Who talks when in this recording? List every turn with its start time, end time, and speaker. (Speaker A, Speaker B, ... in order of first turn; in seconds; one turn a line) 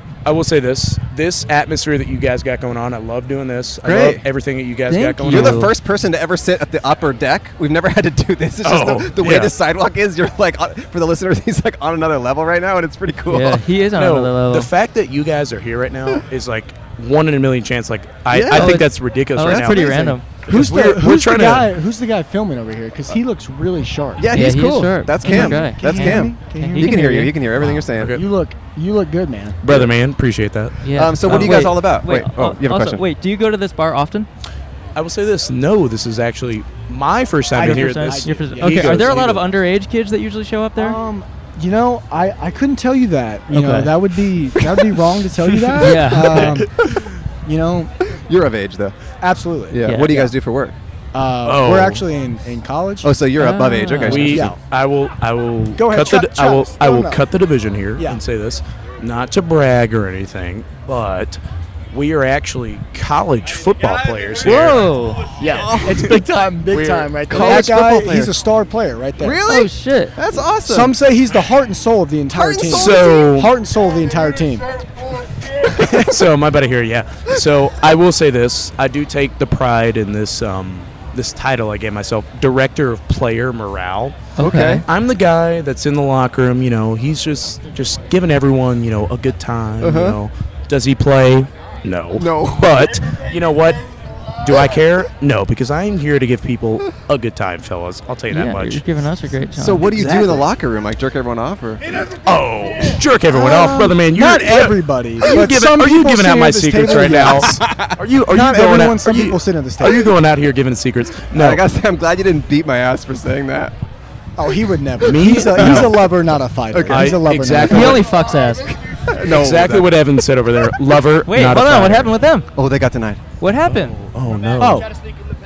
Speaker A: 0.2-5.7
Speaker B: 3.8-4.2
Speaker C: 4.9-5.7
Speaker B: 5.3-13.6
Speaker A: 8.6-9.5
Speaker C: 13.3-14.7
Speaker A: 13.9-21.7
Speaker B: 18.3-18.8
Speaker C: 18.5-20.2
Speaker B: 19.4-20.2
Speaker D: 20.5-24.3
Speaker B: 24.2-28.1
Speaker C: 24.3-27.8
Speaker D: 25.2-27.2
Speaker D: 28.1-29.6
Speaker A: 29.6-30.8
Speaker C: 30.8-34.3
Speaker B: 30.9-33.0
Speaker A: 31.3-31.6
Speaker A: 34.9-39.4
Speaker D: 37.5-39.1
Speaker C: 37.6-41.0
Speaker D: 40.8-46.8
Speaker C: 43.5-43.9
Speaker A: 45.5-46.9
Speaker C: 45.8-46.5
Speaker D: 47.5-47.9
Speaker B: 48.3-49.0
Speaker D: 49.2-50.3
Speaker B: 49.7-50.8
Speaker C: 49.8-50.1
Speaker D: 51.1-53.1
Speaker A: 51.4-52.0
Speaker B: 53.0-54.5
Speaker C: 53.4-54.4
Speaker A: 54.1-64.9
Speaker D: 54.3-54.6
Speaker D: 55.8-57.2
Speaker C: 64.4-65.3
Speaker D: 65.4-69.4
Speaker B: 65.5-66.2
Speaker A: 65.9-67.7
Speaker B: 67.3-68.3
Speaker B: 69.2-70.9
Speaker C: 69.4-70.2
Speaker D: 70.6-74.7
Speaker B: 72.3-73.3
Speaker A: 72.7-73.6
Speaker D: 75.7-76.1
Speaker A: 75.9-93.8
Speaker C: 84.4-84.8
Speaker B: 84.4-84.8
Speaker B: 89.8-90.2
Speaker B: 92.1-92.8
Speaker A: 94.4-98.8
Speaker C: 98.3-99.8
Speaker B: 99.6-101.8
Speaker A: 99.8-100.4
Speaker A: 102.2-111.6
Speaker D: 103.3-107.6
Speaker B: 107.6-107.9
Speaker D: 108.3-110.1
Speaker B: 111.3-113.7
Speaker D: 114.4-118.1
Speaker A: 115.0-116.1
Speaker B: 115.5-115.9
Speaker B: 116.7-117.2
Speaker A: 116.9-118.1
Speaker C: 117.7-118.7
Speaker B: 118.7-119.9
Speaker A: 119.1-122.1
Speaker C: 121.2-122.5
Speaker B: 122.5-123.2
Speaker C: 123.4-124.0
Speaker A: 123.7-124.9
Speaker D: 124.6-124.9